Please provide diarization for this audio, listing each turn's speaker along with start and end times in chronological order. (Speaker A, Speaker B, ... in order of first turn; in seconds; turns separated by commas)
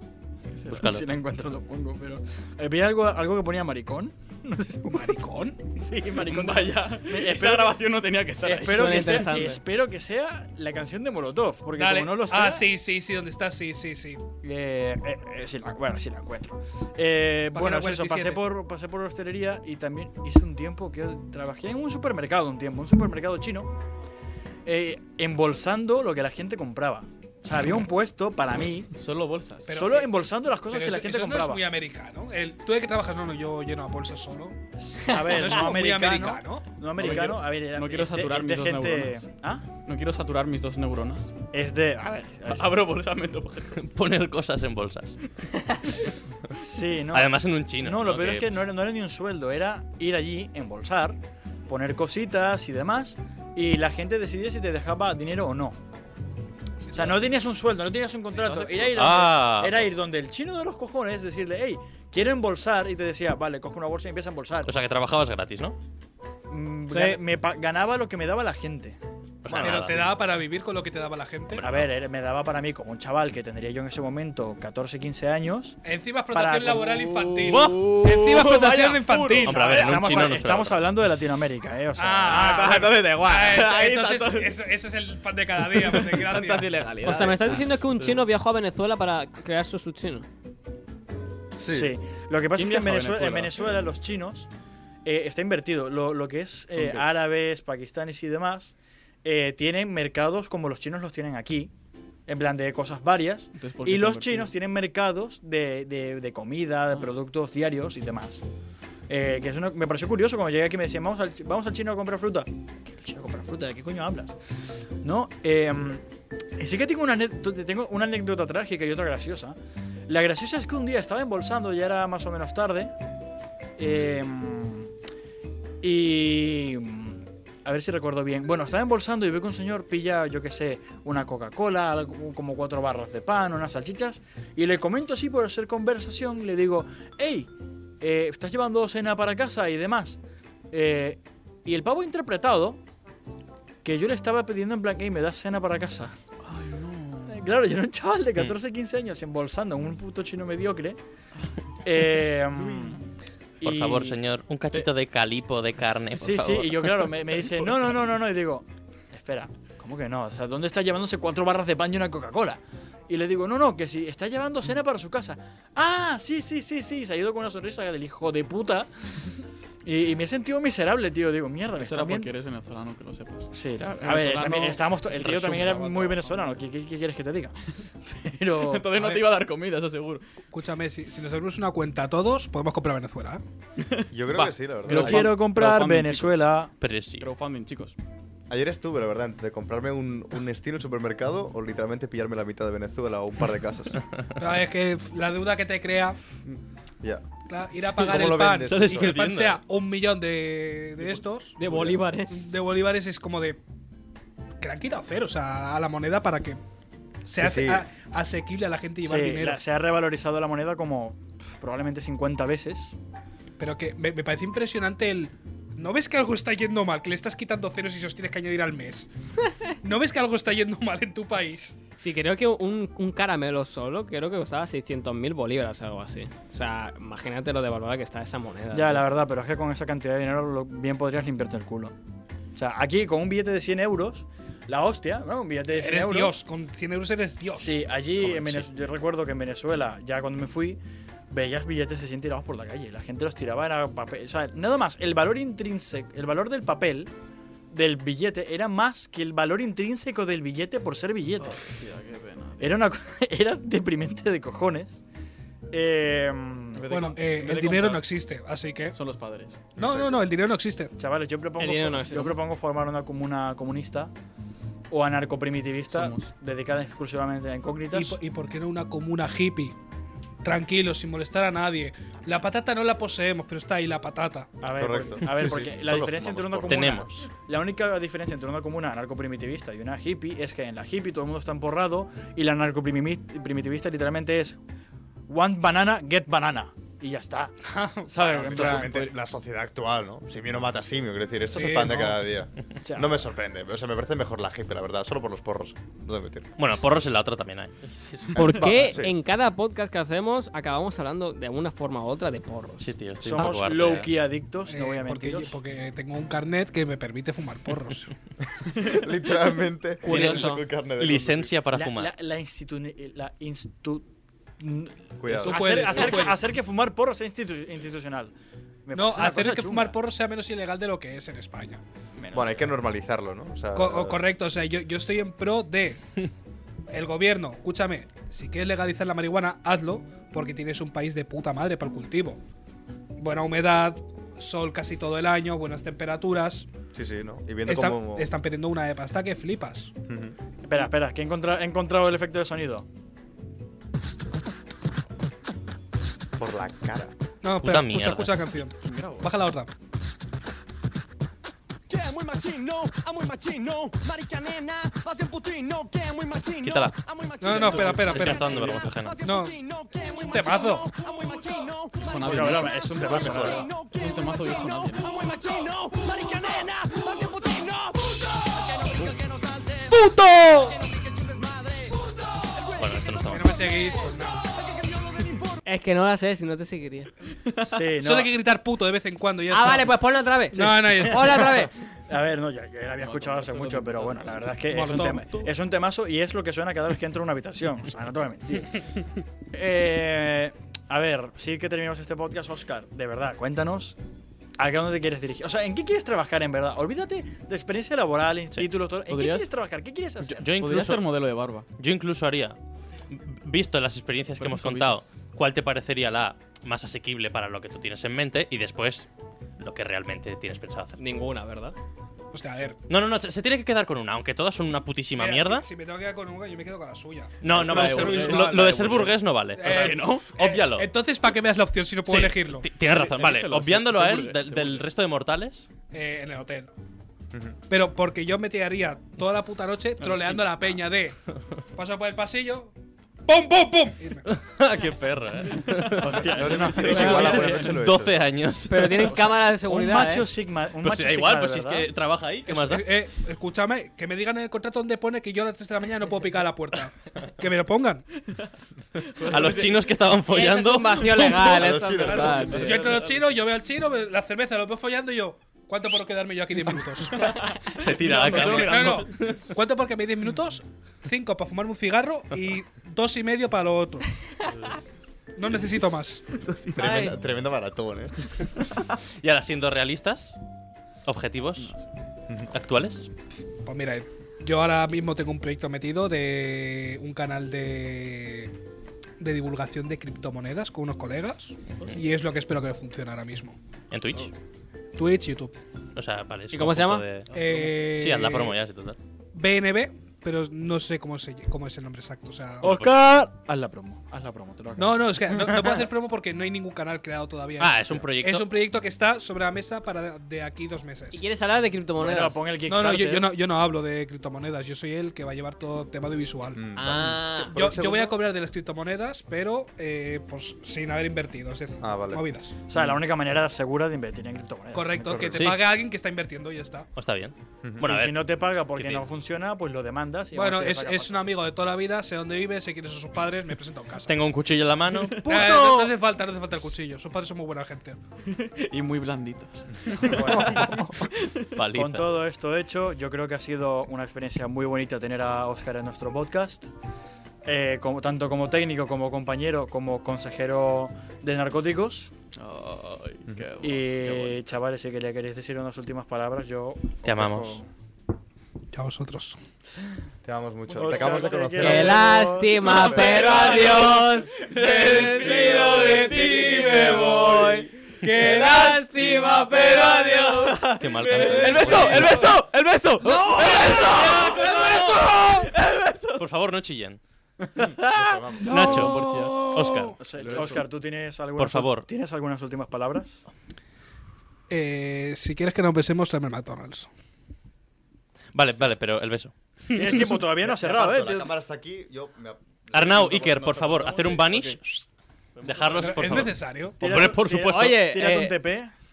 Speaker A: 0.5-0.9, Speaker B: 0.7-1.1, Speaker C: 0.7-5.2, Speaker D: 4.9-5.6, Speaker C: 5.7-7.8, Speaker A: 6.1-9.5, Speaker C: 8.4-12.7, Speaker E: 8.7-9.6, Speaker D: 11.8-14.2, Speaker C: 14.4-23.7, Speaker D: 17.5-18.4, Speaker C: 24.6-28.9, Speaker A: 29.0-29.8, Speaker D: 29.7-30.1, Speaker C: 29.7-31.6, Speaker D: 30.7-34.6, Speaker C: 34.8-39.6, Speaker D: 35.1-36.7, Speaker A: 37.0-39.3, Speaker A: 39.9-41.4, Speaker C: 41.5-42.8, Speaker A: 42.5-43.9, Speaker B: 43.8-45.2, Speaker C: 46.6-55.8, Speaker B: 47.1-48.6, Speaker A: 56.9-57.2, Speaker C: 56.9-64.7, Speaker A: 58.3-59.0, Speaker B: 58.9-59.9, Speaker B: 64.7-65.8, Speaker C: 66.5-69.0, Speaker E: 66.9-67.2, Speaker B: 69.4-70.1, Speaker F: 69.5-70.0, Speaker D: 69.5-71.6, Speaker B: 71.5-71.9, Speaker C: 71.6-75.8, Speaker D: 75.8-79.8, Speaker C: 76.3-76.8, Speaker A: 76.7-80.3, Speaker B: 77.5-77.8, Speaker B: 79.4-80.8, Speaker C: 79.6-82.9, Speaker D: 82.0-86.8, Speaker A: 82.3-84.6, Speaker A: 85.6-88.3, Speaker E: 87.0-90.3, Speaker C: 91.6-94.5, Speaker A: 92.5-93.7, Speaker C: 95.0-101.7, Speaker A: 96.7-97.2, Speaker C: 102.3-108.4, Speaker A: 103.6-104.5, Speaker C: 109.1-114.4, Speaker C: 115.0-116.0, Speaker C: 116.6-119.6, Speaker C: 120.1-122.9, Speaker C: 123.8-124.9, Speaker C: 125.8-137.5, Speaker C: 138.0-140.2, Speaker C: 140.7-142.8, Speaker C: 143.8-146.2, Speaker A: 146.4-147.5, Speaker C: 147.3-151.0, Speaker C: 151.8-153.0, Speaker A: 152.5-153.0, Speaker C: 153.6-154.2, Speaker B: 153.6-157.1, Speaker C: 156.2-168.9, Speaker C: 169.8-172.3, Speaker A: 171.8-176.6, Speaker C: 173.5-177.6, Speaker C: 178.1-178.9, Speaker A: 178.6-180.2, Speaker D: 180.5-183.4, Speaker A: 183.8-186.5, Speaker F: 184.1-185.4, Speaker C: 184.9-186.7, Speaker B: 186.8-187.3, Speaker A: 187.2-188.0, Speaker F: 188.5-194.0, Speaker D: 194.4-196.2, Speaker D: 197.5-201.6, Speaker F: 197.8-199.2, Speaker B: 198.0-199.6, Speaker E: 201.6-202.6, Speaker D: 202.3-203.6, Speaker D: 204.6-206.6, Speaker D: 207.3-209.6, Speaker F: 207.4-207.9, Speaker C: 209.0-213.0, Speaker D: 213.6-219.1, Speaker D: 219.7-221.8, Speaker E: 222.0-229.1, Speaker C: 228.7-231.9, Speaker C: 232.6-236.4, Speaker D: 235.7-237.8, Speaker C: 237.6-247.1, Speaker A: 238.2-238.6, Speaker C: 247.7-251.8, Speaker A: 251.4-252.9, Speaker C: 252.6-255.0, Speaker C: 255.7-256.8, Speaker A: 256.7-258.1, Speaker D: 256.9-258.9, Speaker A: 258.9-260.0, Speaker D: 259.8-260.9, Speaker C: 261.0-264.1, Speaker E: 261.6-262.4, Speaker C: 264.9-268.2, Speaker A: 265.9-266.3, Speaker D: 267.9-269.8, Speaker D: 270.4-274.5, Speaker C: 274.6-284.6, Speaker F: 274.7-277.1, Speaker B: 276.7-277.1, Speaker C: 285.3-289.1, Speaker D: 287.7-288.8, Speaker F: 288.2-296.5, Speaker D: 291.5-292.2, Speaker C: 292.8-293.3, Speaker B: 296.6-298.3, Speaker F: 298.4-299.1, Speaker E: 298.4-302.9, Speaker B: 302.8-304.1, Speaker C: 303.2-305.6, Speaker D: 304.7-308.1, Speaker F: 308.8-311.5, Speaker B: 310.1-312.1, Speaker E: 310.1-310.6, Speaker C: 311.7-314.1, Speaker C: 314.6-318.3, Speaker F: 315.2-316.0, Speaker D: 315.4-316.4, Speaker C: 318.9-320.0, Speaker D: 318.9-321.8, Speaker C: 322.1-322.7, Speaker F: 322.3-324.2, Speaker D: 323.7-326.0, Speaker D: 326.9-332.4, Speaker D: 333.2-336.7, Speaker F: 336.9-338.3, Speaker D: 337.7-339.9, Speaker F: 340.1-340.4, Speaker C: 340.6-342.9, Speaker F: 346.4-347.1, Speaker D: 347.4-349.7, Speaker B: 347.6-348.3, Speaker A: 348.8-349.5, Speaker G: 351.9-375.6, Speaker B: 356.6-356.9, Speaker D: 357.4-358.6, Speaker A: 357.4-358.9, Speaker B: 357.6-359.2, Speaker D: 359.2-359.6, Speaker D: 360.2-360.9, Speaker A: 362.0-365.3, Speaker C: 362.2-363.7, Speaker B: 363.0-363.6, Speaker D: 369.9-370.8, Speaker B: 372.8-373.6, Speaker D: 373.3-374.4, Speaker E: 375.6-377.1, Speaker A: 377.5-377.8, Speaker C: 377.6-378.3, Speaker D: 378.0-379.9, Speaker E: 379.5-381.7, Speaker D: 380.5-381.6, Speaker C: 382.1-388.9, Speaker A: 383.0-385.5, Speaker D: 384.7-385.2, Speaker C: 389.5-394.0, Speaker C: 394.6-400.5, Speaker A: 399.1-399.5, Speaker B: 400.3-401.1, Speaker A: 400.6-401.7, Speaker B: 401.8-402.6, Speaker B: 403.1-409.1, Speaker A: 404.4-405.0, Speaker B: 409.6-411.0, Speaker E: 411.0-411.8, Speaker D: 412.3-412.8, Speaker B: 412.9-415.7, Speaker D: 415.2-418.9, Speaker B: 417.4-420.9, Speaker A: 417.5-420.3, Speaker D: 419.6-422.7, Speaker B: 422.1-425.7, Speaker A: 422.9-424.9, Speaker D: 425.9-426.7, Speaker D: 427.7-431.2, Speaker A: 430.0-430.8, Speaker D: 431.8-432.7, Speaker D: 433.3-434.3, Speaker B: 434.3-439.1, Speaker A: 436.0-437.7, Speaker F: 436.1-438.2, Speaker C: 436.4-437.8, Speaker E: 436.9-437.2, Speaker E: 438.7-440.3, Speaker A: 439.0-439.4, Speaker C: 439.6-441.9, Speaker B: 440.8-442.9, Speaker D: 442.5-448.1, Speaker A: 449.0-450.1, Speaker B: 449.2-451.3, Speaker E: 450.3-452.9, Speaker A: 451.0-453.3, Speaker F: 451.4-452.6, Speaker D: 452.6-457.3, Speaker A: 456.7-459.3, Speaker B: 457.7-459.4, Speaker D: 458.4-464.2, Speaker D: 465.4-466.2, Speaker A: 466.3-466.9, Speaker F: 466.7-468.2, Speaker E: 466.8-467.1, Speaker B: 469.2-470.4, Speaker B: 471.1-471.8, Speaker A: 471.6-471.8, Speaker B: 472.5-473.1, Speaker D: 473.7-478.5, Speaker D: 479.2-483.6, Speaker B: 483.9-484.3, Speaker D: 484.9-485.5, Speaker B: 485.9-487.3, Speaker E: 486.5-487.1, Speaker A: 487.3-487.7, Speaker D: 487.3-488.6, Speaker B: 487.8-489.0, Speaker D: 489.4-492.7, Speaker B: 492.6-492.9, Speaker C: 492.6-495.9, Speaker D: 494.8-501.2, Speaker B: 497.6-498.5, Speaker E: 501.1-502.4, Speaker C: 502.0-503.4, Speaker D: 502.7-506.6, Speaker F: 506.6-508.2, Speaker E: 506.8-507.6, Speaker D: 507.5-512.5, Speaker F: 511.8-512.2, Speaker C: 512.7-515.5, Speaker D: 514.7-516.9, Speaker B: 515.3-515.6, Speaker B: 517.0-519.0, Speaker C: 517.8-521.3, Speaker D: 520.3-524.1, Speaker B: 524.1-525.6, Speaker A: 525.0-525.7, Speaker D: 525.2-528.0, Speaker A: 528.3-531.5, Speaker C: 530.0-530.8, Speaker D: 530.2-530.8, Speaker B: 531.5-532.2, Speaker C: 531.7-536.7, Speaker C: 537.4-542.1, Speaker A: 542.4-544.4, Speaker C: 543.6-547.7, Speaker B: 547.0-547.6, Speaker D: 548.7-549.4, Speaker F: 550.2-552.1, Speaker C: 550.7-552.8, Speaker E: 551.6-557.7, Speaker A: 552.6-566.2, Speaker F: 552.8-553.3, Speaker D: 554.6-557.1, Speaker D: 558.0-558.9, Speaker E: 558.2-560.7, Speaker B: 560.8-562.3, Speaker B: 566.2-567.0, Speaker C: 567.6-568.7, Speaker F: 567.8-568.7, Speaker A: 568.4-570.6, Speaker B: 568.5-570.0, Speaker D: 568.6-570.0, Speaker C: 570.0-573.2, Speaker B: 571.4-571.9, Speaker D: 574.5-576.9, Speaker B: 578.3-579.3, Speaker D: 579.7-580.1, Speaker C: 579.7-581.3, Speaker F: 580.4-583.4, Speaker B: 582.7-584.9, Speaker A: 582.9-584.6, Speaker A: 585.3-586.2, Speaker B: 585.5-587.8, Speaker D: 585.8-586.8, Speaker C: 586.8-588.7, Speaker E: 587.5-588.4